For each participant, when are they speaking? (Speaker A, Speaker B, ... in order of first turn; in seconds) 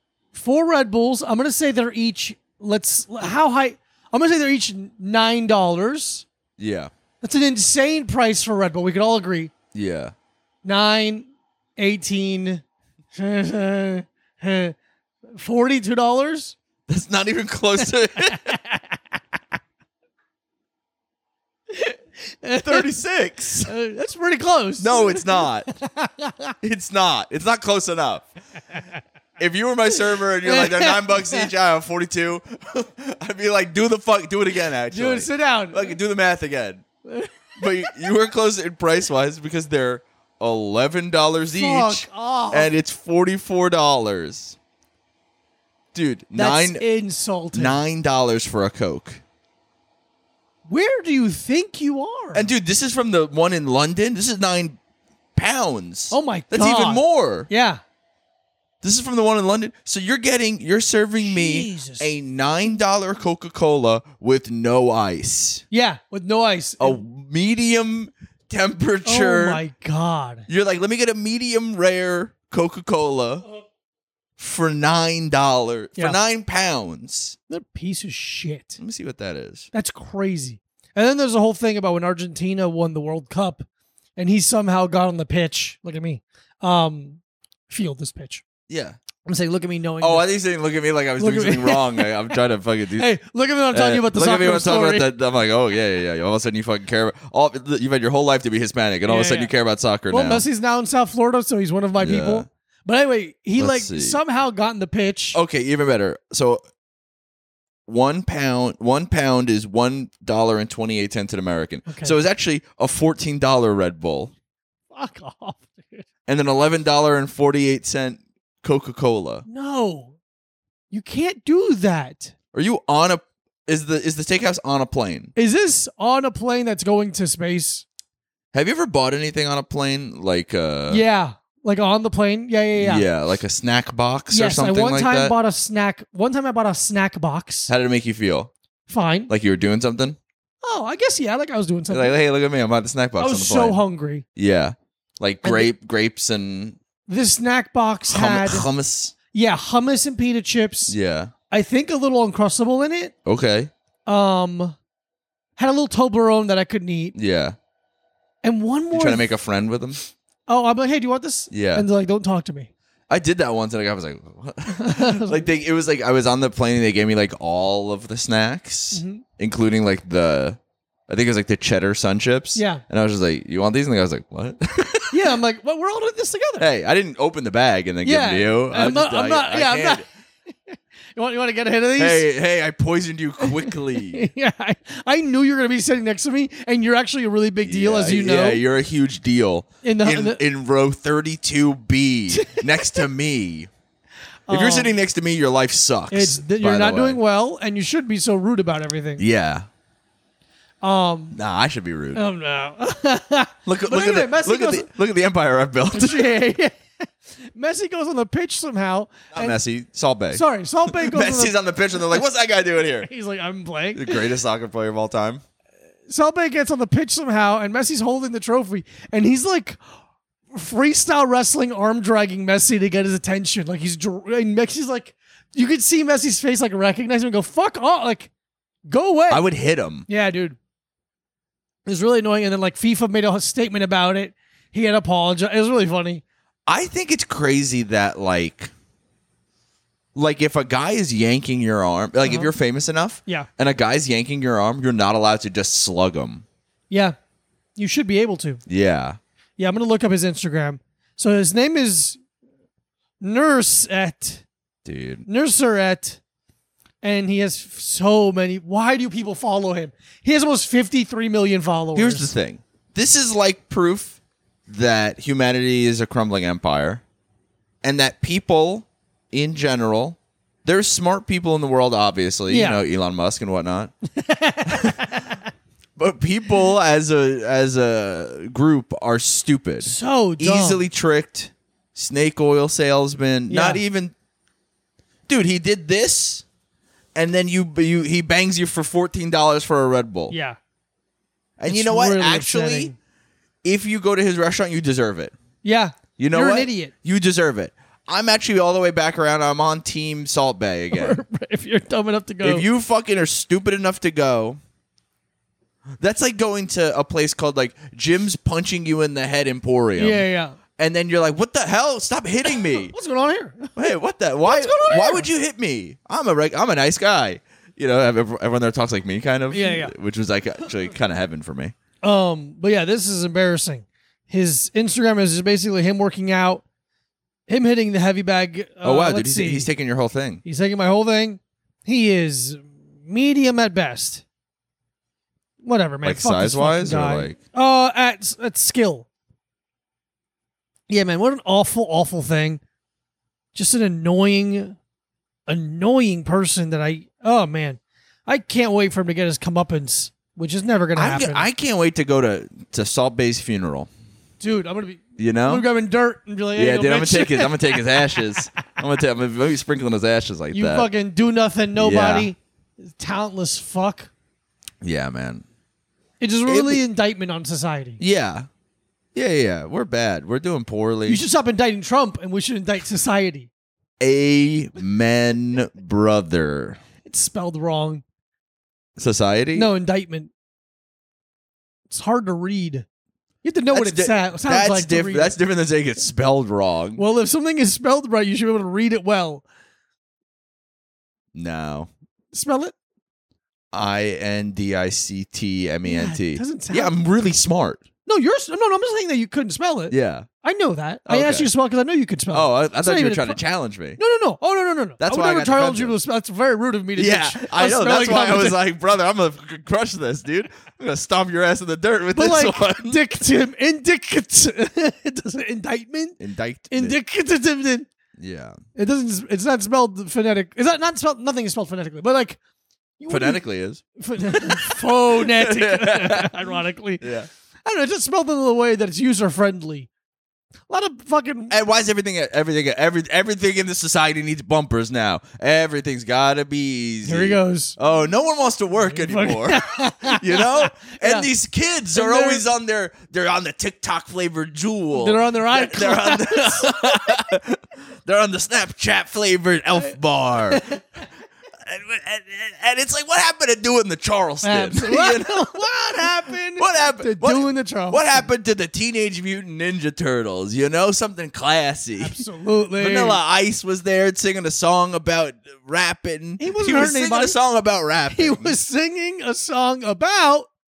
Speaker A: 0.3-6.3, 7.2-9.5, 10.6-12.6, 13.1-14.8, 15.3-16.6, 18.2-19.0, 21.7-22.9, 23.7-26.5, 29.9-31.5, 34.9-36.0, 37.0-38.1, 41.5-42.7, 46.3-47.8, 50.7-52.5, 56.1-57.8, 61.2-62.1, 65.7-67.0, 69.0-70.5, 77.5-78.8, 79.7-83.7, 84.2-88.5, 89.3-90.3, 91.2-92.1, 93.0-95.1, 99.1-99.5, 100.1-105.4, 111.9-112.2, 114.9-116.1, 119.5-120.2, 120.9-122.3, 125.4-127.8, 130.9-133.1, 134.3-137.7, 138.9-139.3, 140.6-142.1, 143.2-144.2, 145.4-145.7, 147.1-148.7, 149.3-151.0, 151.5-153.2, 154.1-154.8, 155.6-157.2, 158.4-159.3, 160.5-162.7, 164.7-165.5, 168.9-169.2, 172.6-172.8, 175.1-176.7, 178.0-180.1, 180.7-182.3, 183.4-188.6, 189.8-190.4, 192.3-193.0, 194.5-194.9, 196.1-199.2, 200.8-201.4, 202.2-204.9, 205.9-209.6, 210.3-211.6, 213.0-214.3, 216.1-219.8, 220.5-228.3, 228.9-229.5, 230.1-230.6, 231.9-236.2, 242.2-242.5, 246.9-247.2, 247.8-248.6, 249.6-252.2, 253.2-254.4, 255.3-256.2, 257.0-262.3, 272.5-272.8, 274.1-275.5, 279.8-280.8, 283.5-283.8, 290.3-290.6, 291.7-292.9, 295.6-296.9, 300.9-302.7, 310.0-310.6, 312.4-313.9, 314.4-315.3, 319.5-319.9, 322.0-326.6, 327.5-329.7, 330.4-334.2, 335.6-339.1, 340.9-342.6, 343.5-344.8, 345.5-351.5, 354.4-358.4, 360.5-364.1, 366.2-368.0, 371.1-373.5, 377.1-378.0, 379.5-380.3, 381.9-382.9, 383.4-385.3, 387.0-389.4, 392.3-392.8, 395.9-396.9, 398.1-403.4, 404.0-408.6, 412.1-416.2, 416.7-417.9, 418.8-422.4, 423.0-423.4, 424.0-427.1, 427.6-429.9, 430.7-431.6, 437.1-437.8, 438.9-441.3, 441.9-442.4, 444.9-447.2, 450.5-450.8, 454.4-458.2, 462.0-463.2, 466.4-467.4, 468.1-470.5
Speaker B: 6.6-6.9, 9.7-10.1, 16.9-18.6, 22.6-23.7, 24.8-25.7, 26.6-28.3, 29.4-36.8, 37.6-44.6, 45.9-46.8, 47.5-49.2, 52.3-54.8, 55.4-57.5, 58.8-65.6, 66.8-69.6, 70.5-73.5, 74.4-77.4, 78.8-79.7, 88.7-89.0, 90.0-93.1, 93.7-100.5, 102.0-102.5, 103.6-104.2, 105.3-106.6, 107.9-114.3, 116.3-119.5, 122.5-125.3, 128.5-131.0, 132.8-135.3, 137.7-138.5, 139.3-140.2, 141.9-143.8, 144.4-146.8, 148.1-149.2, 150.9-151.3, 153.2-153.7, 157.2-157.6, 158.9-160.0, 161.5-161.9, 163.1-175.3, 176.6-180.1, 182.0-184.3, 187.6-193.7, 194.5-197.2, 199.2-199.7, 201.3-202.2, 203.7-206.3, 209.3-213.1, 213.9-215.4, 229.3-230.1, 236.7-238.7, 240.2-246.4, 248.7-249.2, 254.8-255.3, 261.9-267.0, 267.8-273.9, 274.7-275.2, 276.0-284.1, 285.3-286.4, 287.1-290.3, 291.6-292.9, 293.6-295.3, 296.2-301.2, 302.4-304.6, 306.0-310.2, 310.8-312.9, 313.8-321.7, 328.8-330.4, 336.0-337.4, 350.9-353.9, 355.2-355.7, 356.6-360.9, 361.8-362.3, 364.8-365.4, 366.5-366.8, 368.0-368.5, 369.1-371.2, 374.0-376.8, 379.0-379.7, 383.7-387.0, 391.4-391.9, 393.7-397.8, 399.9-400.3, 401.1-401.5, 402.3-404.0, 405.0-406.0, 407.0-413.0, 416.2-417.0, 418.2-418.6, 423.1-426.4, 427.0-427.3, 431.5-450.8, 451.6-462.2, 462.7-468.6